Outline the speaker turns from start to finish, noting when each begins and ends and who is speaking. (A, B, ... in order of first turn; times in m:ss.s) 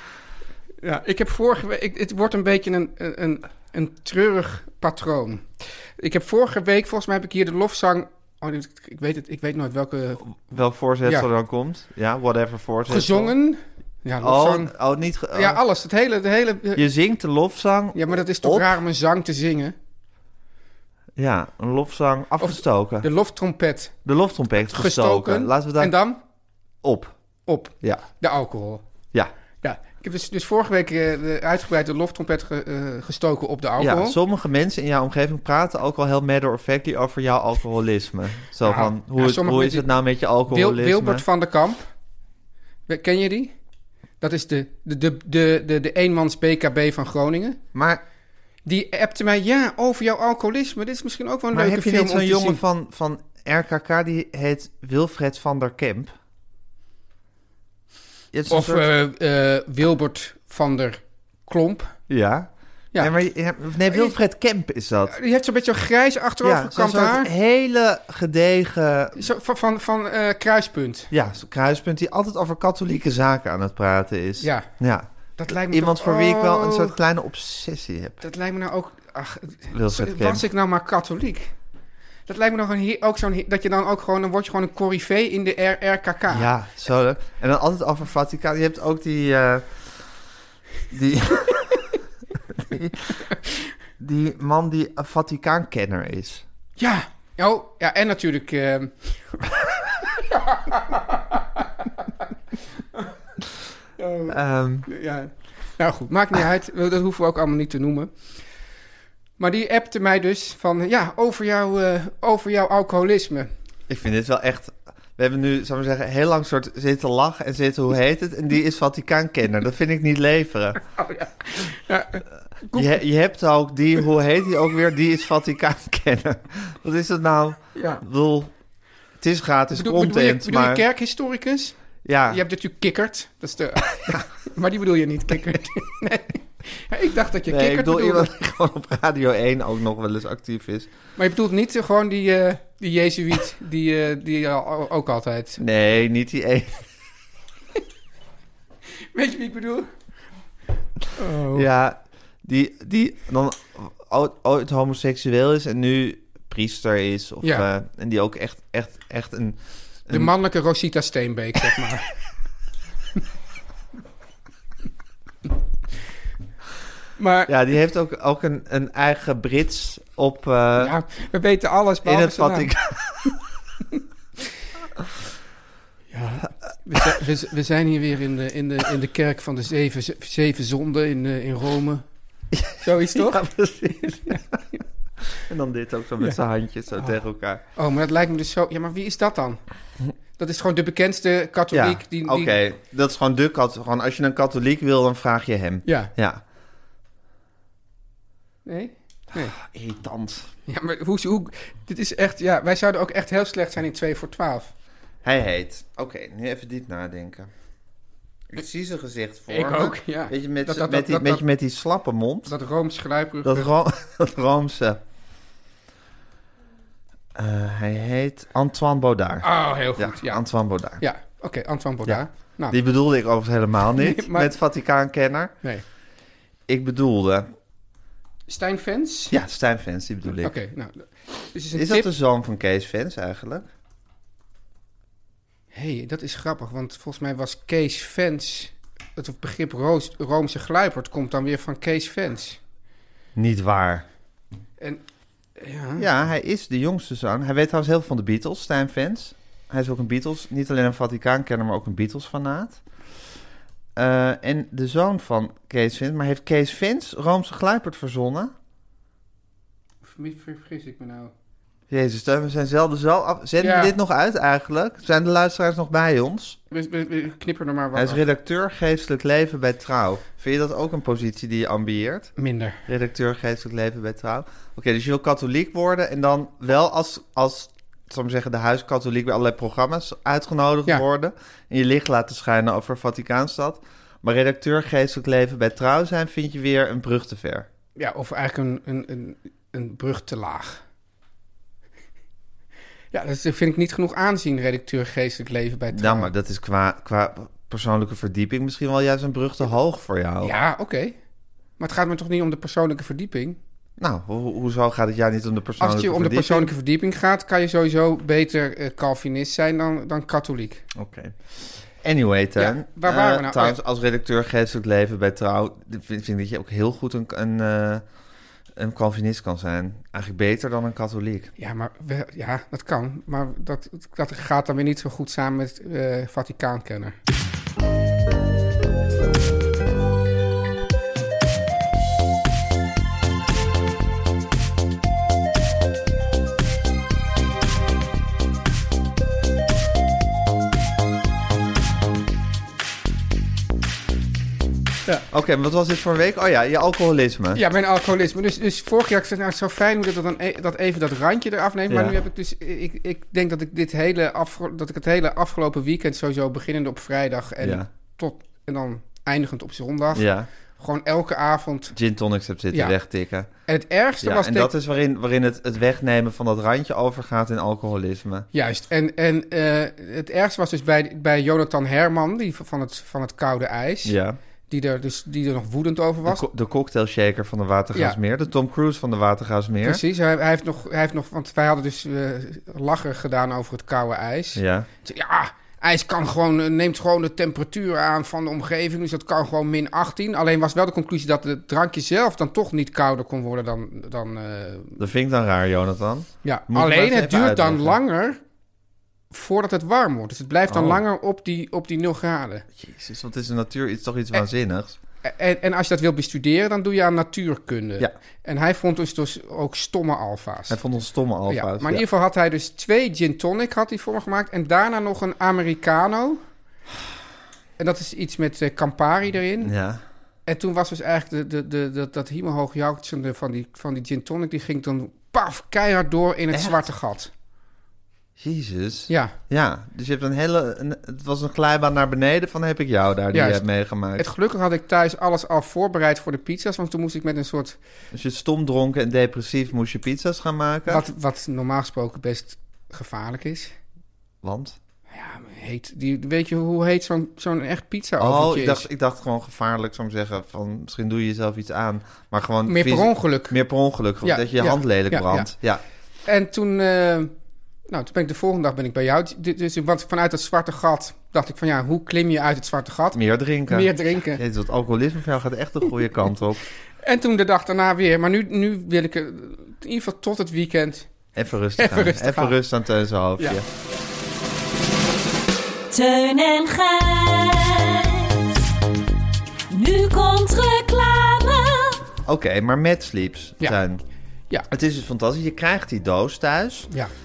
0:00.8-0:10.4 A
0:10.2-0:13.3 B
0:12.9-0:14.7 A
0:14.2-0:15.6 B
0:15.3-0:16.8 A
0:16.8-0:18.8 B
0:17.9-0:19.7 A
0:21.2-0:23.1 B
0:22.4-0:23.9 A
0:24.0-0:26.0 B
0:24.7-0:26.2 A
0:26.8-0:27.2 B
0:27.5-0:28.8 A
0:29.6-0:34.2 A
0:33.8-0:41.2 B
0:38.6-0:39.9 A
0:40.5-0:41.9 A
0:42.9-0:43.5 A
0:44.2-0:47.6 A
0:47.7-0:48.0 B
0:48.6-0:52.6 A
0:51.5-0:56.1 B
0:58.3-0:58.9 B
0:58.5-1:01.9 A
1:02.1-1:05.2 B
1:03.8-1:04.2 A
1:05.1-1:07.3 A
1:06.4-1:09.2 B
1:09.2-1:11.1 A
1:11.1-1:18.2 B
1:14.4-1:14.7 A
1:15.4-1:17.0 A
1:18.2-1:21.5 A
1:19.7-1:20.4 B
1:22.3-1:26.5 A
1:26.3-1:29.8 B
1:30.9-1:31.9 B
1:32.5-1:33.2 B
1:34.0-1:36.4 B
1:36.8-1:39.4 A
1:40.2-1:42.2 A
1:44.0-1:48.1 A
1:44.3-1:44.9 B
1:49.4-1:53.5 A
1:53.9-2:00.8 B
2:01.0-2:03.0 A
2:02.7-2:08.5 B
2:07.7-2:08.0 A
2:09.2-2:10.8 B
2:09.7-2:11.8 A
2:12.0-2:12.4 B
2:12.3-2:18.3 A
2:17.5-2:20.9 B
2:21.2-2:25.6 A
2:25.6-2:26.9 B
2:29.1-2:29.9 A
2:31.2-2:31.7 A
2:31.5-2:40.3 B
2:40.1-2:42.1 A
2:47.2-2:47.5 A
2:47.5-2:50.9 B
2:50.8-2:52.7 A
2:52.0-2:53.4 B
2:56.1-3:02.0 A
3:02.5-3:04.6 B
3:02.8-3:04.8 A
3:05.3-3:07.6 B
3:07.8-3:09.6 A
3:10.4-3:12.6 A
3:11.7-3:16.4 B
3:15.8-3:16.1 A
3:18.6-3:19.6 A
3:19.3-3:20.5 B
3:20.7-3:24.7 A
3:25.2-3:27.5 B
3:28.5-3:32.5 B
3:29.5-3:31.4 A
3:32.4-3:33.7 A
3:33.4-3:35.0 B
3:37.3-3:41.0 B
3:39.4-3:40.4 A
3:41.0-3:42.8 A
3:42.0-3:45.5 B
3:44.0-3:44.5 A
3:46.7-3:47.5 B
3:48.5-3:49.4 A
3:49.3-3:50.5 B
3:50.4-3:52.1 A
3:51.7-3:53.7 B
3:55.7-4:02.6 A
4:03.4-4:04.0 B
4:05.6-4:06.0 A
4:06.0-4:12.8 B
4:14.0-4:18.5 B
4:20.0-4:21.3 A
4:21.9-4:26.6 B
4:23.6-4:23.9 A
4:26.7-4:28.2 A
4:27.9-4:32.3 B
4:32.4-4:32.8 A
4:32.8-4:47.7 B
4:48.0-4:50.8 A
4:53.1-4:56.3 A
4:55.9-5:00.5 B
5:00.4-5:01.2 A
5:01.8-5:03.6 A
5:04.0-5:06.7 B
5:05.8-5:10.8 A
5:10.9-5:11.4 B
5:12.0-5:18.0 B
5:12.6-5:13.8 A
5:18.7-5:21.5 B
5:21.6-5:27.2 A
5:45.3-5:47.6 B
5:47.5-6:01.9 A
5:51.9-5:52.2 B
5:57.6-5:57.9 B
6:00.1-6:00.5 B
6:01.9-6:03.5 B
6:03.7-6:04.7 A
6:04.2-6:08.5 B
6:08.5-6:14.2 A
6:14.0-6:14.4 B
6:14.7-6:16.4 A
6:16.2-6:20.0 B
6:19.8-6:35.0 A
6:24.6-6:24.9 B
6:35.0-6:38.0 B
6:36.4-6:38.4 A
6:39.3-6:42.6 A
6:40.7-6:41.0 B
6:42.8-6:45.0 B
6:45.2-6:50.8 A
6:50.7-6:52.0 B
6:51.5-6:56.4 A
6:57.8-6:59.7 A
6:59.6-7:00.0 B
7:00.4-7:07.3 A
7:06.5-7:06.8 B
7:08.4-7:14.3 B
7:09.1-7:09.3 A
7:13.3-7:13.6 A
7:14.2-7:17.8 A
7:18.1-7:21.0 B
7:20.9-7:23.7 A
7:24.4-7:24.8 B
7:25.1-7:28.9 A
7:28.2-7:35.8 B
7:32.7-7:33.6 A
7:34.2-7:35.5 A
7:36.2-7:37.3 A
7:37.9-7:44.4 A
7:43.1-7:46.6 B
7:47.0-7:51.1 A
7:51.3-7:53.6 B
7:51.8-7:52.6 A
7:55.9-7:58.6 C
7:59.7-8:02.0 C
8:02.2-8:04.0 B
8:04.7-8:06.9 B